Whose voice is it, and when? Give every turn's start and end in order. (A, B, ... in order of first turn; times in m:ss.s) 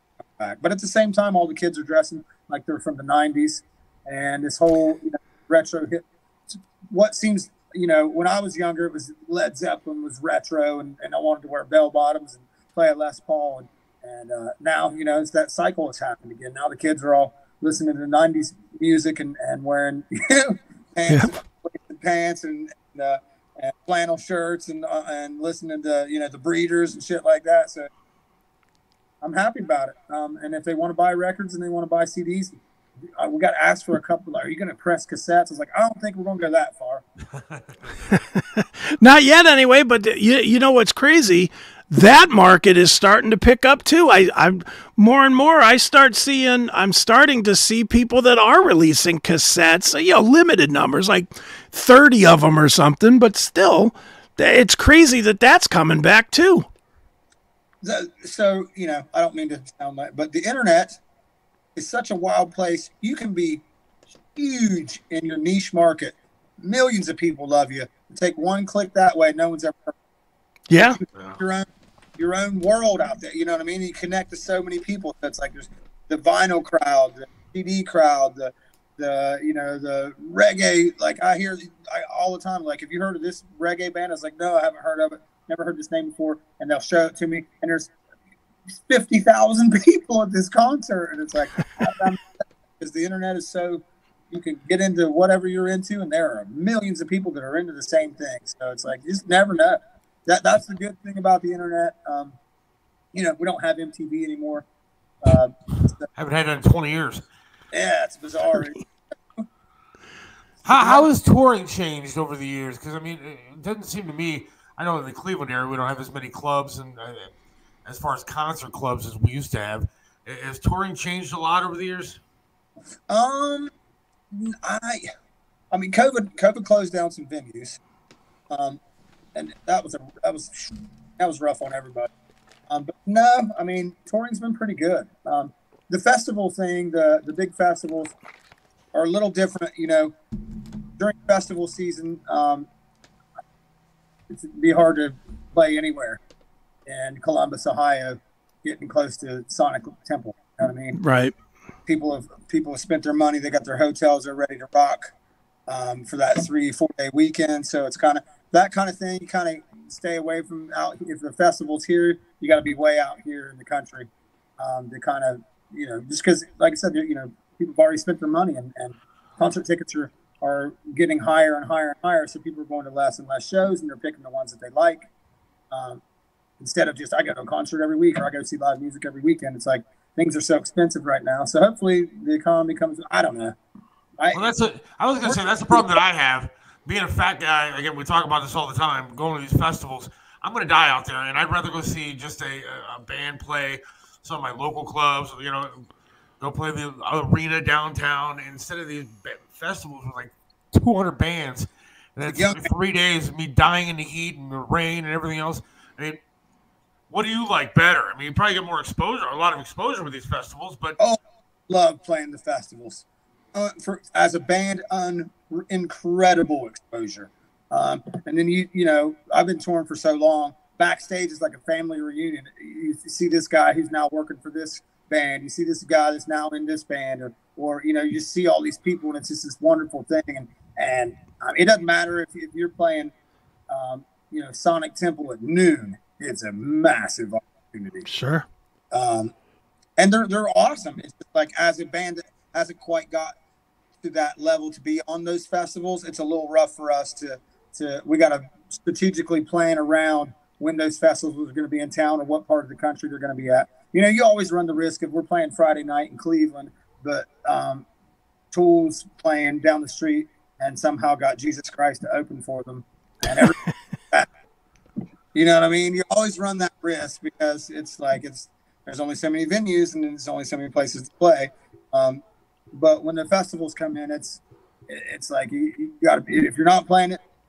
0:00.4-0:27.9 A
0:29.2-0:32.6 A
0:33.1-0:37.0 A
0:37.3-0:38.0 B
0:38.1-0:56.7 C
0:57.8-1:01.0 A
1:01.8-1:03.6 A
1:04.4-1:10.0 A
1:10.7-1:11.0 C
1:11.1-1:11.4 B
1:11.4-1:27.9 A
1:28.7-1:42.4 A
1:43.1-1:44.7 A
1:45.2-1:46.1 A
1:46.1-1:47.2 B
1:47.7-1:48.8 A
1:50.6-1:57.3 B
1:50.7-1:51.1 A
1:57.9-2:02.2 B
2:03.1-2:03.7 A
2:04.3-2:05.1 A
2:05.7-2:07.8 A
2:08.5-2:08.8 A
2:09.4-2:12.1 A
2:12.7-2:18.1 A
2:18.9-2:20.2 A
2:21.0-2:22.7 A
2:24.3-2:26.2 A
2:26.9-2:31.0 A
2:30.9-2:31.4 C
2:31.9-2:35.1 A
2:35.7-2:55.1 A
2:55.7-2:56.0 A
2:56.6-3:03.6 A
3:04.3-3:15.9 B
3:05.2-3:05.9 A
3:16.4-3:26.2 B
3:22.3-3:22.7 A
3:27.1-3:31.0 B
3:31.0-3:53.1 A
3:53.7-3:58.1 A
3:58.1-3:58.5 C
3:58.9-3:59.3 A
4:00.0-4:03.4 A
4:04.0-4:17.9 A
4:18.5-4:23.6 A
4:25.3-4:37.2 A